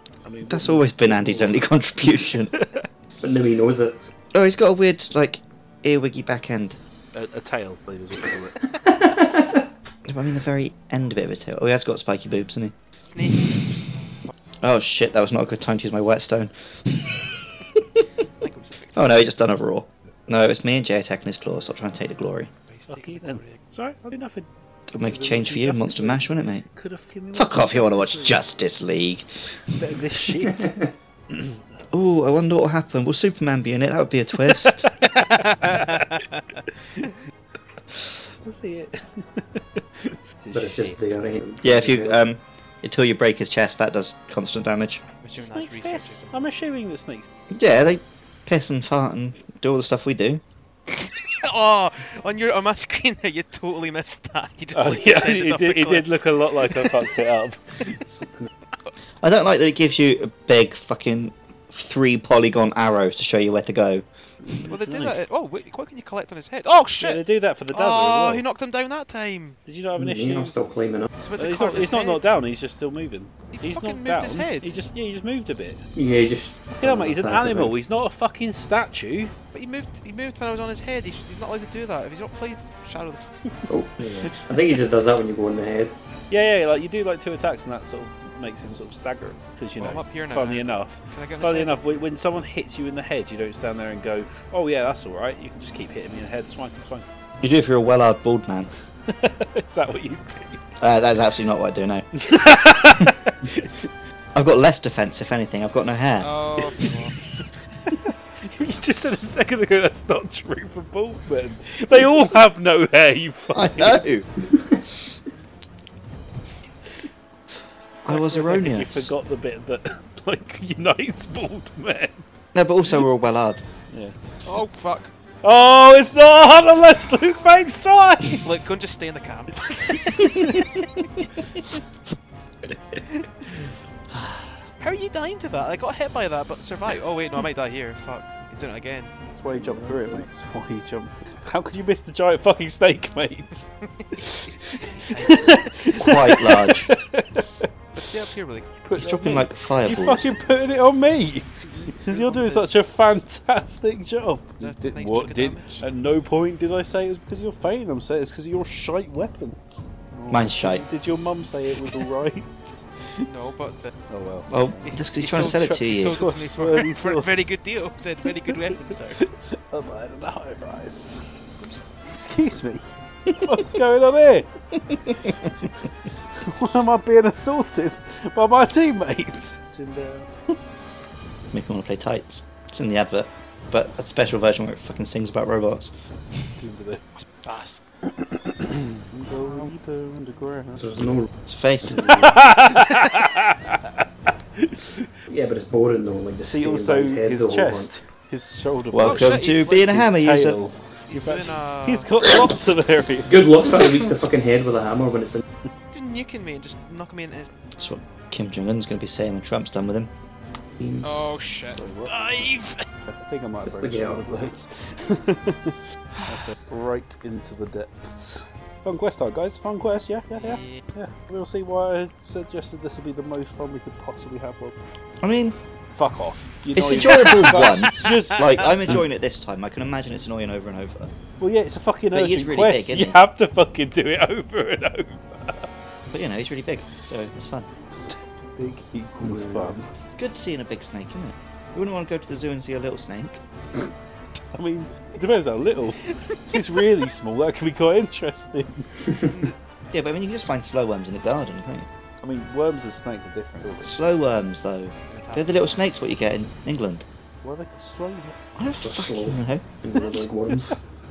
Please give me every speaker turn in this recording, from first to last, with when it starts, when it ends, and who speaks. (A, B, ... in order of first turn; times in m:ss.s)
0:00.2-0:01.7 A
0:00.5-0:02.6 B
0:02.3-0:02.8 A
0:03.2-0:04.1 C
0:04.3-0:06.8 B
0:07.1-0:08.8 A
0:08.7-0:09.6 C
0:10.1-0:12.7 B
0:13.0-0:13.9 D
0:14.6-0:17.0 B
0:17.8-0:18.0 B
0:18.4-0:19.6 D
0:19.0-0:22.5 B
0:22.7-0:23.6 D
0:22.9-0:28.4 A
0:24.9-0:26.6 B
0:27.3-0:29.5 B
0:29.7-0:30.7 A
0:30.4-0:30.9 C
0:31.3-0:31.6 A
0:31.9-0:34.9 B
0:34.5-0:36.2 A
0:35.1-0:36.6 D
0:38.2-0:41.2 A
0:40.5-0:42.2 C
0:41.6-0:45.0 B
0:45.2-0:46.3 D
0:45.4-0:47.3 A
0:47.5-0:50.4 B
0:51.0-0:57.1 D
0:54.7-0:58.0 A
0:59.2-1:04.0 B
1:04.5-1:05.2 A
1:04.7-1:09.6 D
1:07.0-1:08.4 A
1:09.6-1:10.6 A
1:09.9-1:11.1 C
1:11.2-1:12.3 D
1:11.4-1:15.8 A
1:13.5-1:14.8 D
1:15.9-1:17.7 C
1:16.7-1:19.3 A
1:19.5-1:23.2 D
1:23.7-1:25.9 C
1:24.3-1:24.8 A
1:26.3-1:37.0 A
1:29.8-1:32.0 D
1:37.4-1:38.7 B
1:39.0-1:40.7 A
1:40.8-1:42.0 B
1:42.1-1:43.9 A
1:44.3-1:46.3 B
1:46.2-1:47.3 D
1:46.6-1:46.9 A
1:47.8-1:54.0 A
1:53.5-1:54.3 B
1:58.0-2:02.2 A
1:58.0-1:59.1 B
2:02.5-2:03.6 B
2:03.9-2:04.6 A
2:04.4-2:05.1 D
2:05.4-2:08.7 A
2:08.4-2:11.2 D
2:10.2-2:10.6 A
2:14.8-2:19.2 D
2:19.3-2:27.7 A
2:19.5-2:20.3 C
2:24.0-2:25.9 D
2:25.9-2:26.9 B
2:27.9-2:28.7 D
2:28.8-2:43.3 A
2:28.9-2:30.3 B
2:31.8-2:32.7 D
2:34.6-2:35.8 D
2:40.3-2:40.8 B
2:43.2-2:43.9 D
2:44.1-2:47.6 A
2:44.5-2:46.2 B
2:44.8-2:49.2 D
2:48.3-2:51.2 A
2:52.0-2:54.5 A
2:55.1-2:55.5 B
2:56.4-3:00.3 A
3:01.5-3:05.9 B
3:06.6-3:07.2 A
3:07.2-3:07.8 D
3:08.0-3:10.9 A
3:10.8-3:11.3 C
3:11.5-3:12.4 B
3:11.9-3:12.5 C
3:12.0-3:15.1 A
3:15.3-3:17.9 C
3:16.4-3:24.0 A
3:18.9-3:20.6 B
3:19.0-3:19.9 D
3:21.1-3:22.1 D
3:23.3-3:25.4 C
3:25.9-3:27.5 D
3:27.8-3:30.1 B
3:30.8-3:31.0 C
3:31.0-3:32.8 D
3:31.7-3:32.2 A
3:33.1-3:44.7 A
3:33.6-3:34.4 C
3:40.4-3:40.8 D
3:45.2-3:45.6 B
3:45.9-3:49.0 A
3:46.7-3:51.1 B
3:51.4-3:55.7 A
3:52.1-3:53.2 B
3:56.1-3:57.7 B
3:58.1-3:59.9 A
3:59.2-3:59.8 C
4:00.2-4:03.4 B
4:04.5-4:09.2 A
4:09.9-4:11.9 B
4:12.2-4:13.9 A
4:13.8-4:17.0 B
4:15.1-4:15.9 D
4:17.4-4:18.4 A
4:18.6-4:19.6 B
4:18.8-4:20.8 C